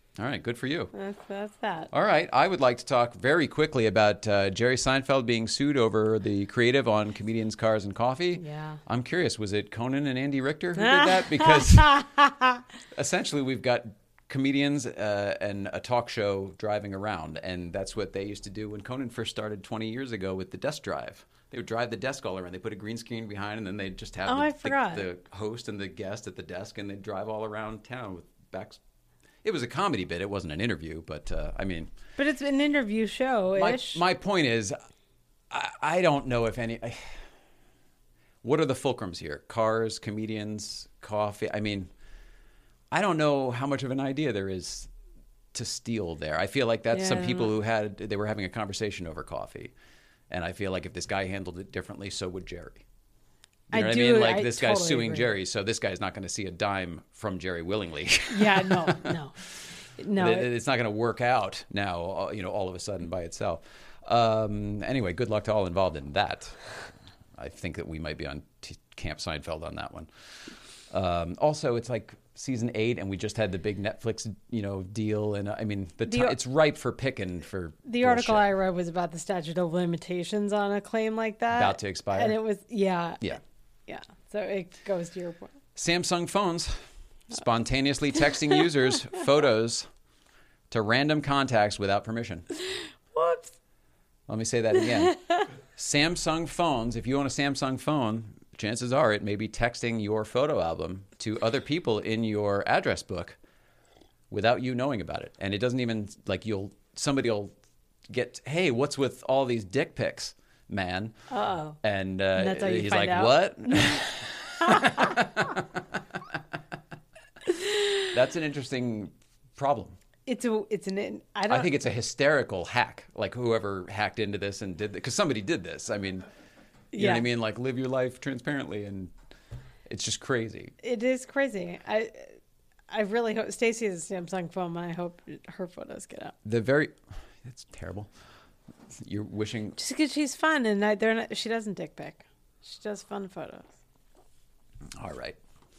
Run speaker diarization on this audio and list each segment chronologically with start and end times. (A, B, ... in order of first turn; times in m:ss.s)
0:00.2-0:00.9 A
0:00.9-0:01.9 B
0:01.9-0:12.0 A
0:08.4-0:08.8 B
0:10.8-0:12.6 B
0:12.9-0:28.8 A
0:24.3-0:25.1 B
0:29.4-0:31.9 A
0:32.2-0:34.0 B
0:33.6-0:34.8 A
0:35.5-0:37.2 A
0:38.4-0:41.9 A
0:42.9-0:44.9 A
0:45.5-0:49.7 A
0:46.9-0:47.5 B
0:50.3-0:52.8 A
0:53.7-0:59.5 A
0:53.7-0:55.3 B
0:58.3-0:59.4 B
1:00.0-1:00.5 B
1:00.2-1:06.8 A
1:07.4-1:18.5 A
1:16.1-1:16.4 B
1:17.9-1:25.5 B
1:21.5-1:22.4 A
1:25.8-1:26.8 A
1:27.3-1:29.9 A
1:30.7-1:32.5 A
1:33.1-1:33.5 B
1:34.3-1:43.4 A
1:35.0-1:35.5 B
1:44.3-1:47.5 A
1:48.1-1:51.1 A
1:51.3-1:51.8 B
1:51.8-1:56.6 A
1:52.3-1:54.0 B
1:54.6-1:55.2 B
1:58.1-2:00.0 A
2:00.3-2:01.7 B
2:01.5-2:06.3 A
2:06.9-2:07.3 B
2:06.9-2:09.1 A
2:09.9-2:10.8 A
2:10.8-2:12.4 B
2:12.9-2:16.3 B
2:16.4-2:18.1 A
2:19.0-2:19.8 A
2:19.8-2:23.7 B
2:25.0-2:25.4 A